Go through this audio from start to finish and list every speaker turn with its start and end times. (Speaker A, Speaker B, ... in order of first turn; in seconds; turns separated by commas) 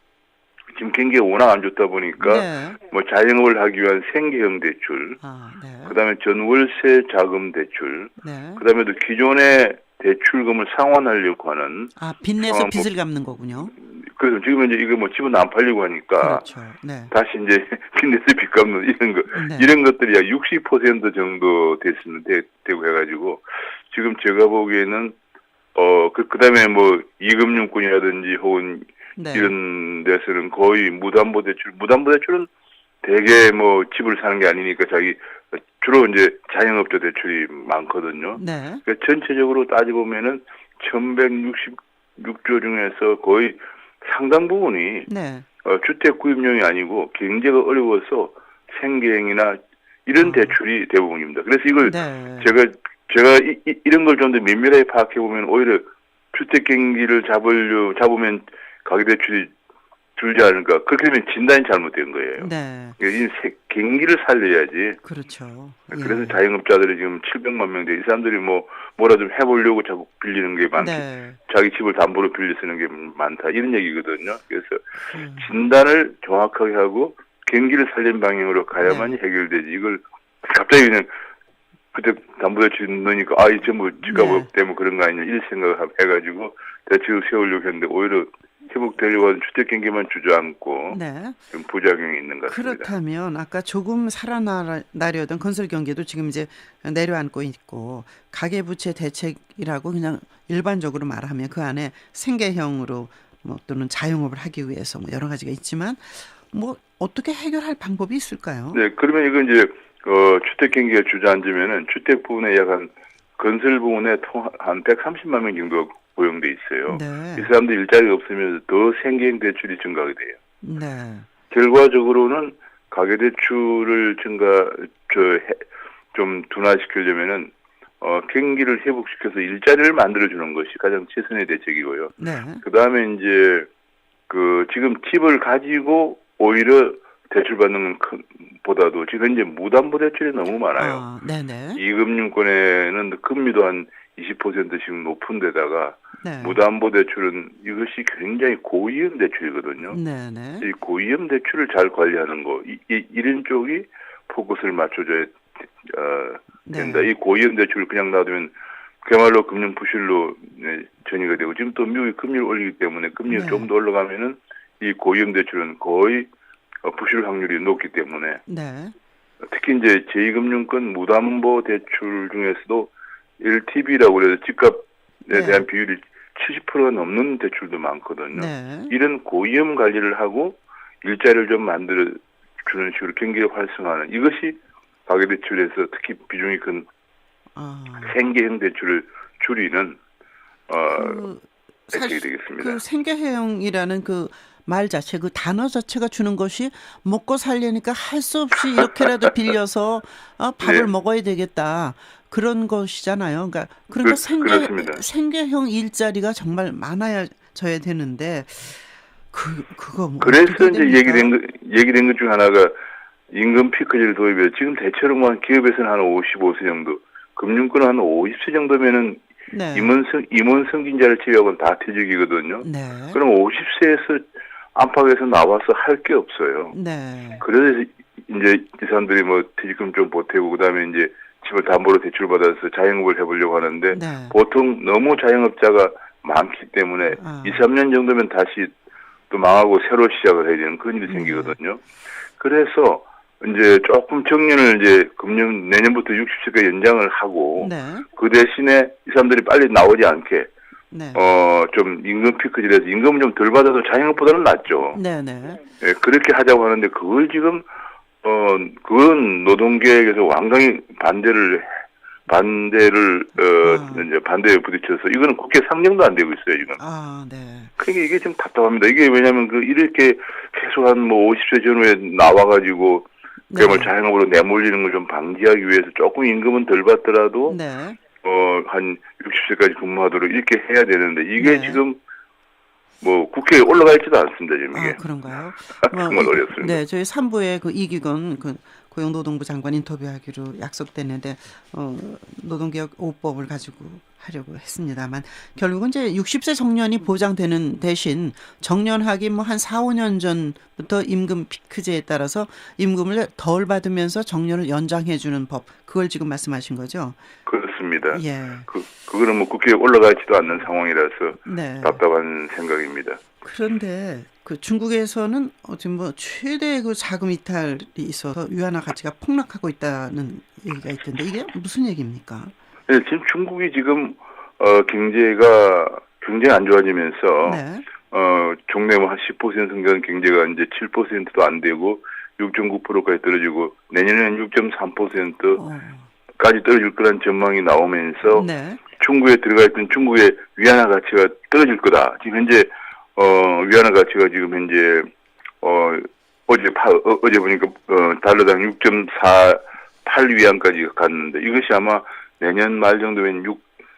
Speaker A: 0.7-5.2, Speaker B: 2.2-2.8, Speaker B: 5.2-6.0, Speaker A: 5.8-12.9, Speaker B: 8.2-8.6, Speaker B: 11.9-13.8, Speaker A: 13.8-16.4, Speaker B: 16.2-17.1, Speaker A: 17.1-25.1, Speaker B: 19.3-19.7, Speaker A: 25.7-32.5, Speaker B: 29.2-29.5, Speaker A: 33.0-35.2, Speaker A: 35.8-45.1, Speaker B: 38.3-38.8, Speaker B: 45.1-45.5, Speaker A: 45.6-59.5, Speaker B: 50.2-50.5, Speaker B: 51.8-52.5, Speaker A: 60.2-65.0, Speaker B: 62.4-63.0, Speaker B: 65.0-66.4, Speaker A: 65.9-74.8, Speaker B: 70.8-71.4, Speaker B: 75.0-75.5, Speaker A: 75.4-81.1, Speaker B: 78.8-79.2, Speaker A: 81.9-91.0, Speaker B: 84.1-84.5, Speaker B: 90.9-91.4, Speaker A: 91.5-92.9, Speaker B: 92.5-108.8, Speaker A: 108.7-120.4, Speaker B: 116.9-117.5, Speaker B: 120.6-121.3, Speaker A: 121.5-125.6, Speaker A: 126.1-133.7, Speaker B: 132.2-132.6, Speaker A: 134.3-141.0, Speaker B: 140.8-141.8, Speaker A: 141.8-150.0, Speaker B: 146.2-146.6, Speaker B: 149.9-150.7, Speaker A: 150.6-166.3, Speaker B: 156.7-157.1, Speaker B: 163.3-163.7, Speaker A: 166.8-168.4, Speaker B: 168.5-168.9, Speaker A: 169.4-186.9, Speaker B: 175.3-175.7, Speaker B: 178.3-178.9, Speaker B: 187.6-188.1, Speaker A: 188.0-190.0, Speaker A: 190.7-191.3, Speaker B: 190.9-211.3, Speaker A: 191.9-192.8, Speaker A: 200.6-200.9, Speaker A: 204.0-205.0, Speaker A: 210.2-212.7, Speaker A: 213.3-219.2, Speaker B: 219.5-219.9, Speaker A: 219.7-226.7, Speaker B: 222.6-223.2, Speaker B: 226.7-227.4, Speaker A: 227.4-238.7, Speaker B: 233.9-234.3, Speaker B: 237.1-237.6, Speaker A: 239.3-241.8, Speaker B: 241.1-241.6, Speaker A: 242.4-250.5, Speaker B: 247.6-248.1, Speaker B: 250.9-251.2, Speaker A: 251.1-255.0, Speaker B: 254.9-255.6, Speaker A: 255.8-257.6, Speaker A: 258.2-261.7, Speaker A: 262.3-266.8, Speaker B: 263.6-264.1, Speaker B: 266.8-267.7, Speaker A: 267.8-277.6, Speaker B: 273.5-273.9, Speaker B: 277.5-278.0, Speaker A: 278.2-282.0, Speaker B: 281.4-281.8, Speaker A: 283.0-285.0, Speaker B: 284.7-307.2, Speaker A: 285.8-286.8, Speaker A: 307.4-313.2, Speaker B: 308.1-308.7, Speaker B: 311.4-312.0, Speaker B: 313.4-322.5, Speaker A: 322.9-335.6, Speaker B: 327.4-327.9, Speaker B: 335.6-336.1, Speaker A: 336.4-345.1, Speaker B: 338.3-338.8, Speaker A: 345.6-353.6